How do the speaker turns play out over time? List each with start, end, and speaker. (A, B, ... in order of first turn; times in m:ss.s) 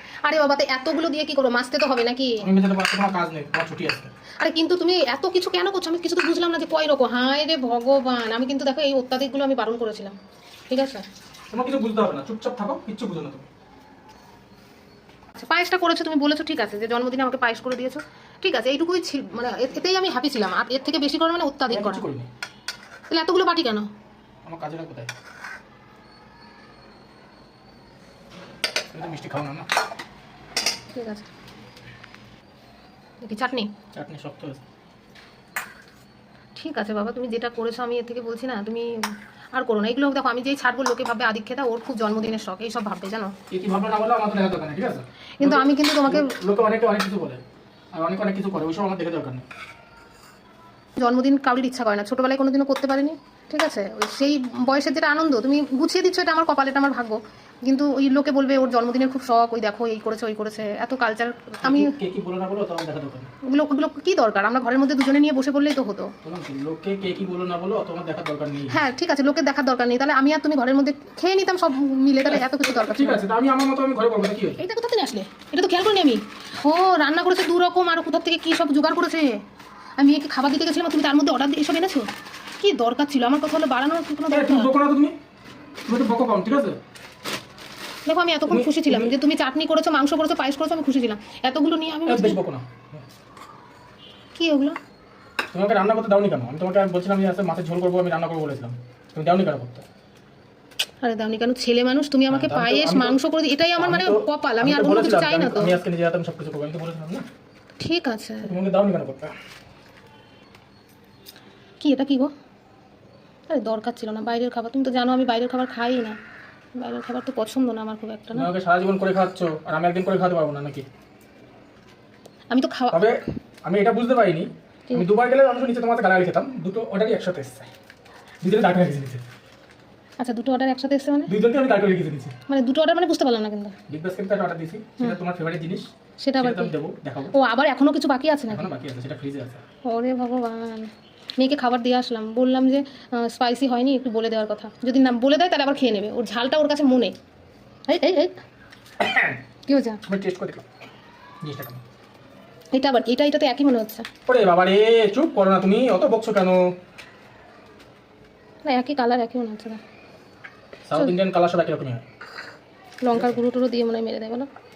0:00.3-0:02.4 A
0:02.4-0:04.1 B
0:04.4-0:10.2 A
0:10.7-0:11.0 A
0:11.5-0:13.5 B
0:15.4-0:22.0 A
0:21.7-0:22.3 B
0:23.1-0:23.9 A
0:24.4-0:25.1 B
0:28.9-0:29.7 B
0:30.9-0:31.3 A
0:33.2-0:33.7 A
0:33.9-0:34.6 B
0:36.6-0:43.4 A
0:43.5-0:47.4 B
0:45.4-0:46.3 A
0:48.0-0:49.4 B
0:51.0-1:01.9 A
1:01.6-1:03.3 B
1:03.4-1:06.1 A
1:06.2-1:08.8 B
1:08.7-1:13.2 A
1:12.3-1:14.6 B
1:14.6-1:19.4 A
1:20.0-1:22.1 A
1:22.6-1:24.7 A
1:24.3-1:25.2 B
1:25.9-1:26.8 B
1:28.1-1:32.4 A
1:28.5-1:29.1 B
1:32.1-1:33.0 B
1:34.4-1:34.8 A
1:35.5-1:39.8 B
1:41.0-1:45.8 A
1:42.3-1:43.2 B
1:43.8-1:47.3 B
1:47.8-1:48.5 A
1:48.4-1:49.3 B
1:51.8-1:52.3 A
1:53.5-1:56.2 A
1:56.8-1:58.5 A
1:58.3-2:00.9 B
2:02.5-2:03.0 A
2:02.9-2:07.7 B
2:08.4-2:09.2 B
2:10.2-2:11.3 A
2:11.3-2:12.4 B
2:12.5-2:13.8 A
2:13.9-2:17.4 B
2:16.2-2:16.7 A
2:17.3-2:18.7 A
2:18.5-2:19.6 B
2:19.8-2:27.1 A
2:27.9-2:28.4 A
2:29.0-2:29.4 B
2:29.7-2:30.0 A
2:30.1-2:30.7 B
2:31.4-2:31.8 B
2:32.7-2:34.1 A
2:34.3-2:36.7 B
2:38.6-2:39.8 A
2:40.9-2:42.0 B
2:43.0-2:44.5 A
2:43.1-2:43.4 B